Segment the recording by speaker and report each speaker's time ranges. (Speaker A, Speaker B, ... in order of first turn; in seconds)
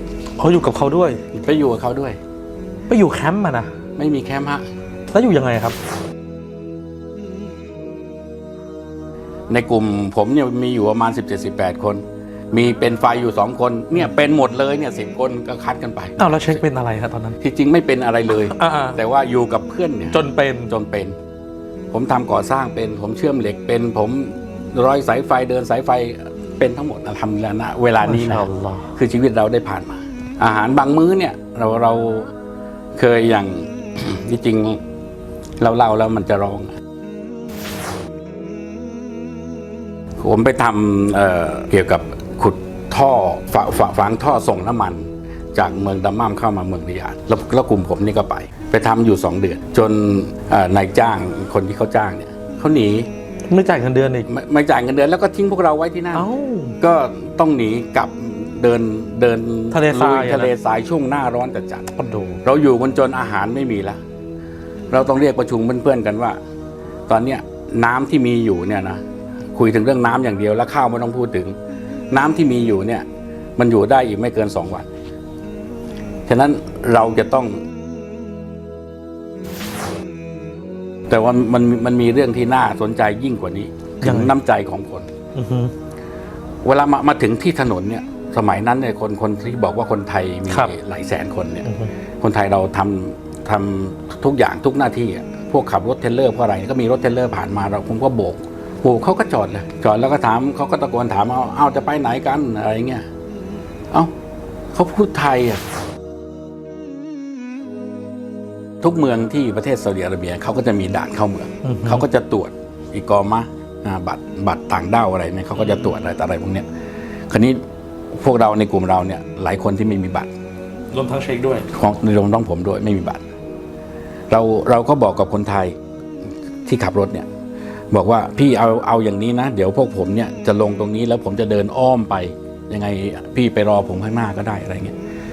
Speaker A: 0.4-1.2, 2.9-3.7, 5.1-5.8, 16.2-17.4, 18.5-19.0, 20.1-20.7, 28.0-28.9, 53.5-54.3, 56.1-56.7, 59.7-60.5, 62.0-62.4, 84.0-84.3, 85.3-85.7, 111.6-112.0, 120.9-121.7
Speaker B: 1.3-2.2, 4.0-4.7, 9.5-16.6, 17.4-21.1, 21.9-32.3, 32.9-34.8, 35.6-36.7, 40.2-53.1, 54.3-61.9, 62.4-64.0, 64.9-66.4, 67.1-69.0, 69.5-71.5, 72.1-73.0, 73.6-74.8, 76.3-77.6, 81.1-85.1, 86.6-91.7, 92.2-103.0, 104.7-105.6, 108.8-116.7, 117.3-117.6, 118.1-120.3, 121.7-123.2, 124.3-125.7, 126.7-127.3, 127.9-134.9